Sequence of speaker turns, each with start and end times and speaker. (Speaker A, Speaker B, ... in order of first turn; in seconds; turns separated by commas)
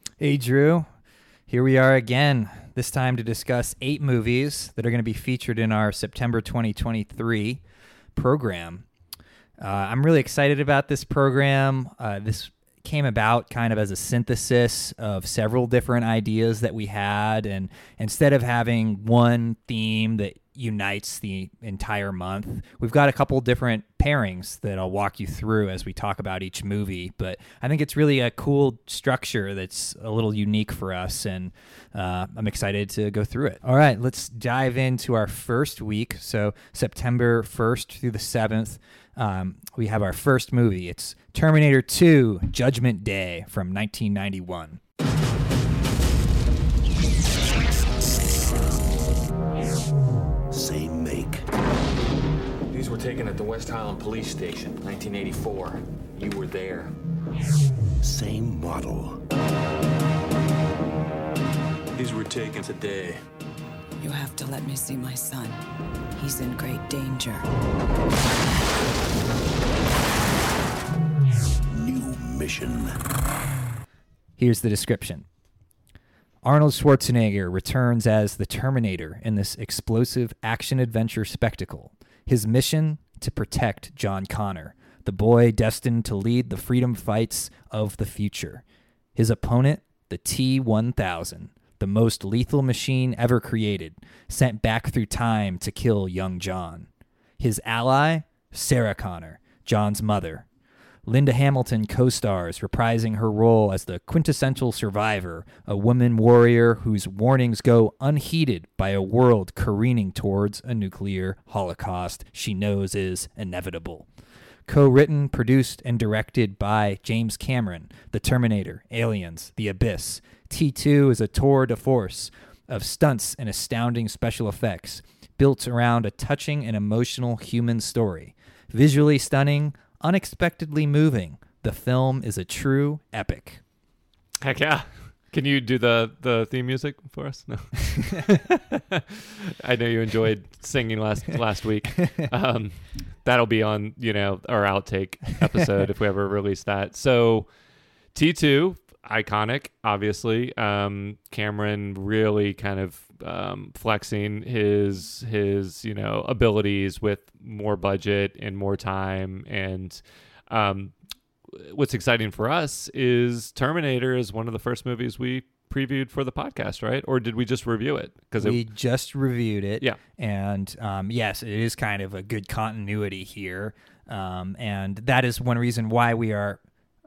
Speaker A: 0.2-0.9, Speaker A: 1.5-7.6, Speaker A: 8.2-8.8, Speaker A: 9.6-44.8, Speaker B: 50.5-51.4, Speaker C: 52.7-56.9, Speaker B: 58.0-59.2, Speaker C: 61.9-63.2, Speaker D: 64.0-65.6, Speaker D: 66.2-67.5, Speaker B: 71.7-73.0, Speaker A: 74.4-75.2, Speaker A: 76.4-88.6, Speaker A: 89.2-96.9, Speaker A: 97.4-100.5, Speaker A: 101.0-114.1, Speaker A: 114.7-133.6, Speaker E: 134.4-147.5, Speaker E: 148.1-160.9, Speaker E: 161.5-168.6, Speaker A: 168.4-176.6